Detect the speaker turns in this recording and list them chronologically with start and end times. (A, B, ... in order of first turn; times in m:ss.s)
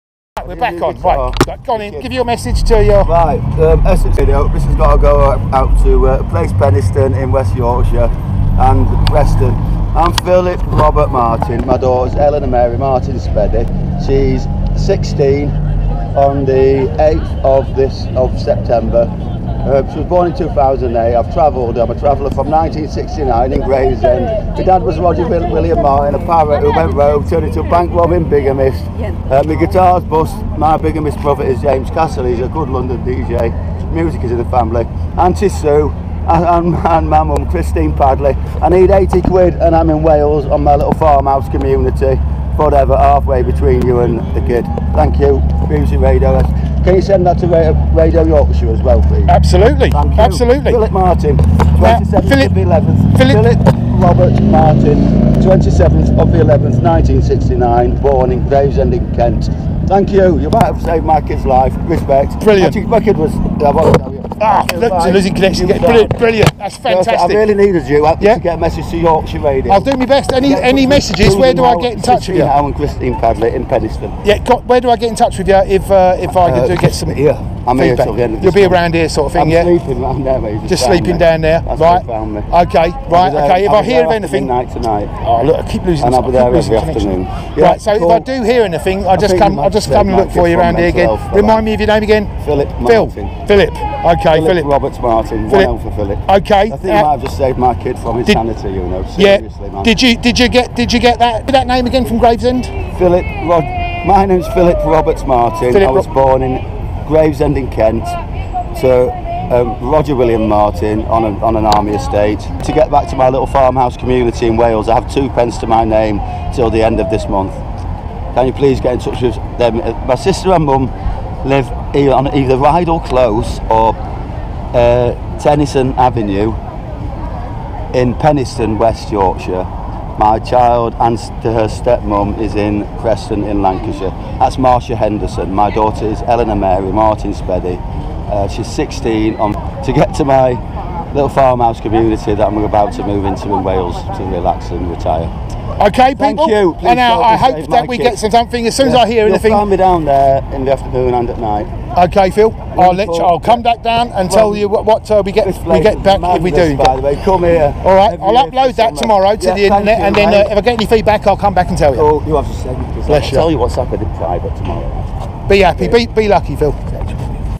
0:00.4-0:03.1 A
0:00.4-0:02.0 B
0:03.0-0:15.5 B
0:16.1-0:19.1 B
0:19.6-0:49.4 B
0:49.3-0:50.8 A
0:49.9-1:06.1 B
0:51.8-0:52.5 A
0:53.1-0:53.4 A
1:02.4-1:02.8 A
1:04.4-1:07.4 A
1:06.8-1:09.9 B
1:09.7-1:12.5 A
1:10.4-1:14.2 B
1:14.2-1:17.2 A
1:16.4-1:18.8 B
1:17.7-1:19.7 A
1:19.3-1:22.5 B
1:20.6-1:24.5 A
1:23.1-1:25.1 B
1:25.2-1:34.7 A
1:26.0-1:28.3 B
1:29.1-1:31.6 B
1:32.4-1:33.3 B
1:34.3-1:39.9 B
1:36.2-1:37.1 A
1:39.2-1:42.7 A
1:42.9-1:48.2 B
1:45.7-1:46.1 A
1:48.7-1:57.6 B
1:58.3-2:00.9 B
2:01.4-2:04.0 B
2:04.7-2:06.6 B
2:07.9-2:25.3 B
2:25.8-2:29.6 A
2:26.1-2:28.2 B
2:28.8-2:31.7 B
2:31.9-2:37.0 A
2:32.7-2:33.6 B
2:34.3-2:34.7 B
2:35.4-2:40.5 B
2:37.8-2:42.1 A
2:41.9-2:45.1 B
2:43.0-2:43.5 A
2:45.5-2:46.8 A
2:45.8-2:46.0 B
2:46.9-2:47.3 B